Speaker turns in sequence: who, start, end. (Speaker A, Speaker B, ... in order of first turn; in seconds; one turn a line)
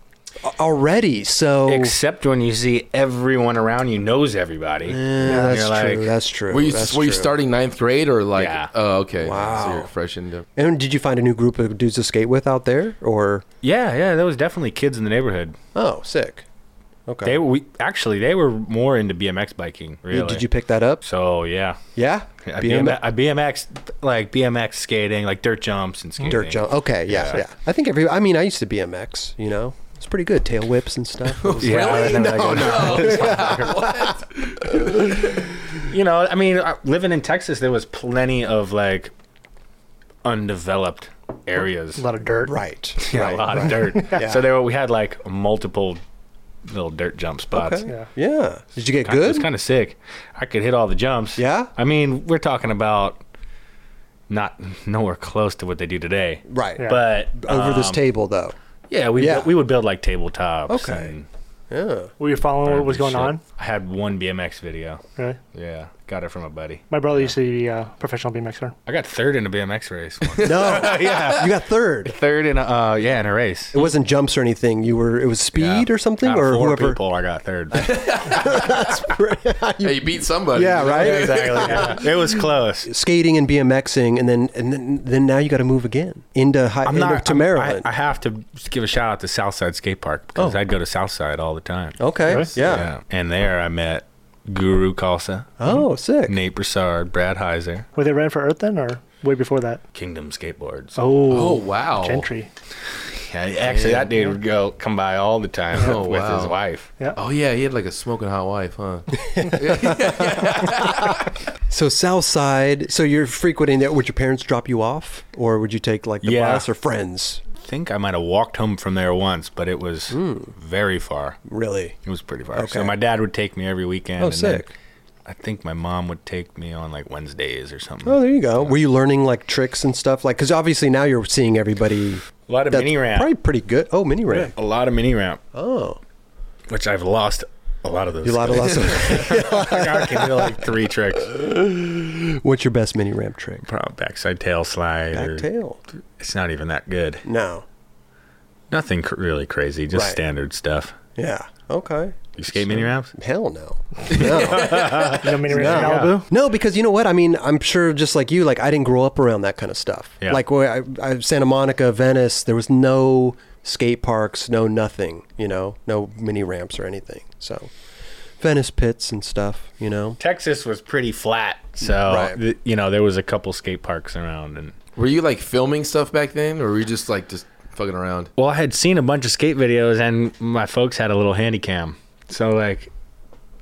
Speaker A: 0.4-1.9
Speaker B: 1.7-6.1
Speaker A: 4.8-7.3
Speaker C: 5.2-5.6
Speaker D: 6.5-10.4
Speaker B: 8.4-8.7
Speaker A: 9.2-9.9
Speaker A: 10.5-13.4
Speaker B: 13.6-15.6
Speaker A: 15.7-16.4
Speaker A: 17.1-17.4
Speaker B: 17.2-20.4
Speaker A: 20.1-21.0
Speaker B: 21.0-21.8
Speaker A: 21.9-23.0
Speaker B: 22.4-27.4
Speaker A: 26.3-35.7
Speaker D: 31.2-35.1
Speaker B: 31.6-33.9
Speaker B: 35.9-39.1
Speaker B: 40.2-42.0
Speaker C: 42.0-42.6
Speaker A: 42.5-44.4
Speaker B: 43.0-46.0
Speaker C: 43.9-44.2
Speaker B: 46.7-47.9
Speaker A: 47.5-49.5
Speaker B: 49.0-53.2
Speaker A: 51.4-51.7
Speaker B: 54.3-58.0
Speaker A: 56.5-56.8
Speaker A: 57.4-58.5
Speaker B: 58.9-61.3
Speaker A: 59.2-59.5
Speaker A: 60.7-61.1
Speaker A: 61.7-62.1
Speaker C: 62.2-63.4
Speaker B: 62.6-65.0
Speaker B: 65.5-67.3
Speaker C: 66.9-68.7
Speaker B: 68.8-71.5
Speaker D: 70.3-71.0
Speaker A: 70.4-72.1
Speaker B: 72.0-73.8
Speaker A: 73.7-77.0
Speaker B: 75.5-77.9
Speaker A: 77.7-82.1
Speaker D: 77.8-78.9
Speaker D: 79.8-82.0
Speaker B: 80.9-82.9
Speaker A: 82.8-87.9
Speaker B: 86.8-92.0
Speaker A: 92.0-92.9
Speaker C: 92.3-92.5
Speaker B: 92.5-97.8
Speaker A: 95.6-96.4
Speaker C: 98.0-99.8
Speaker B: 99.9-101.0
Speaker C: 101.0-102.5
Speaker D: 101.3-102.3
Speaker B: 102.9-106.9
Speaker D: 103.6-104.3
Speaker D: 105.7-106.5
Speaker D: 107.1-111.2
Speaker A: 109.3-111.1
Speaker A: 111.7-117.4
Speaker B: 116.2-116.7
Speaker B: 117.6-121.4
Speaker A: 120.1-120.5
Speaker A: 121.4-122.0
Speaker B: 122.0-124.7
Speaker A: 122.5-123.0
Speaker A: 124.2-124.7
Speaker B: 125.2-128.8
Speaker A: 128.1-134.5
Speaker B: 132.5-133.3
Speaker B: 134.3-135.4
Speaker A: 135.5-136.0
Speaker B: 136.7-141.3
Speaker A: 138.2-140.6
Speaker A: 141.2-143.6
Speaker B: 143.6-145.4
Speaker A: 145.1-145.8
Speaker B: 146.2-147.2
Speaker A: 147.2-147.6
Speaker B: 148.7-150.9
Speaker A: 149.9-150.2
Speaker A: 151.2-167.7
Speaker B: 152.4-153.1
Speaker B: 154.1-156.2
Speaker C: 155.1-156.3
Speaker A: 168.4-170.2
Speaker B: 170.2-174.8
Speaker A: 171.9-172.4
Speaker D: 174.9-178.3
Speaker B: 178.4-182.9